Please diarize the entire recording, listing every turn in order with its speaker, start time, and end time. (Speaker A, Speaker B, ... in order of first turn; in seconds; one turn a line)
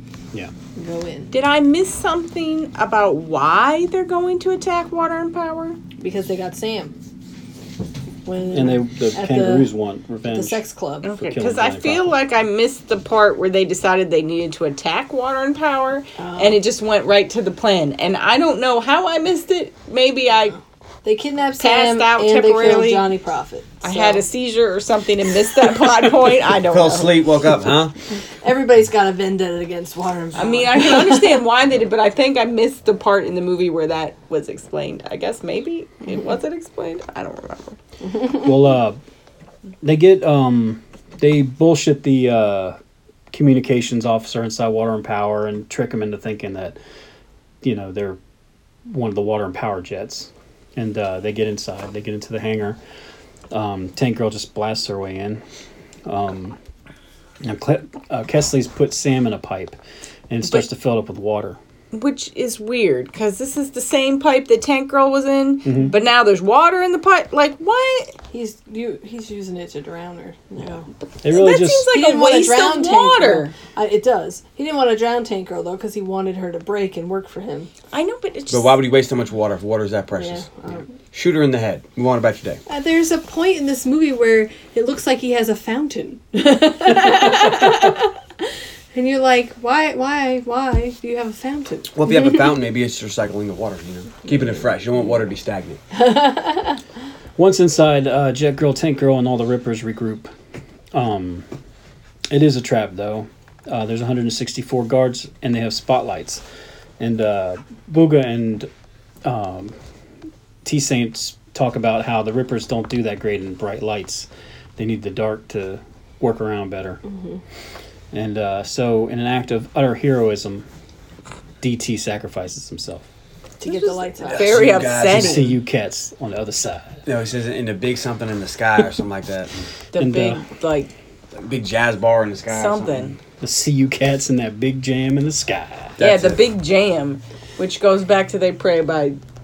Speaker A: 0.8-1.3
Speaker B: 1.3-5.8
Speaker A: 6.0-6.9
Speaker A: 8.2-9.7
Speaker C: 8.5-10.6
Speaker A: 10.3-11.1
Speaker B: 11.0-20.6
Speaker C: 11.1-12.1
Speaker A: 16.2-16.6
Speaker A: 21.0-24.2
Speaker B: 21.6-23.1
Speaker B: 23.8-27.2
Speaker D: 26.7-27.9
Speaker A: 28.4-31.4
Speaker B: 30.3-37.8
Speaker C: 38.4-39.0
Speaker C: 39.8-42.8
Speaker C: 43.3-46.8
Speaker C: 47.6-48.2
Speaker C: 48.9-52.8
Speaker C: 53.5-55.4
Speaker C: 56.0-56.6
Speaker C: 57.4-59.8
Speaker C: 60.3-61.6
Speaker B: 61.9-68.1
Speaker C: 65.6-65.9
Speaker A: 68.3-70.9
Speaker C: 71.2-71.9
Speaker B: 71.2-73.5
Speaker A: 71.9-77.7
Speaker B: 77.9-78.8
Speaker D: 78.5-80.5
Speaker A: 80.2-80.8
Speaker D: 81.1-82.6
Speaker A: 82.7-88.1
Speaker A: 88.9-92.5
Speaker D: 91.9-95.8
Speaker A: 96.0-96.8
Speaker C: 97.4-100.3
Speaker C: 100.9-101.5
Speaker C: 102.3-106.4
Speaker C: 107.0-108.7
Speaker C: 109.2-109.8
Speaker C: 110.6-117.0
Speaker A: 117.1-117.4
Speaker C: 118.1-120.6
Speaker C: 121.6-123.0
Speaker A: 123.6-124.9
Speaker B: 123.6-125.5
Speaker D: 124.3-125.5
Speaker C: 125.1-127.0
Speaker D: 127.0-129.5
Speaker B: 129.9-130.9
Speaker C: 130.0-130.4
Speaker D: 131.4-133.2
Speaker B: 132.5-133.1
Speaker C: 133.4-136.0
Speaker D: 136.0-136.4
Speaker B: 136.0-139.2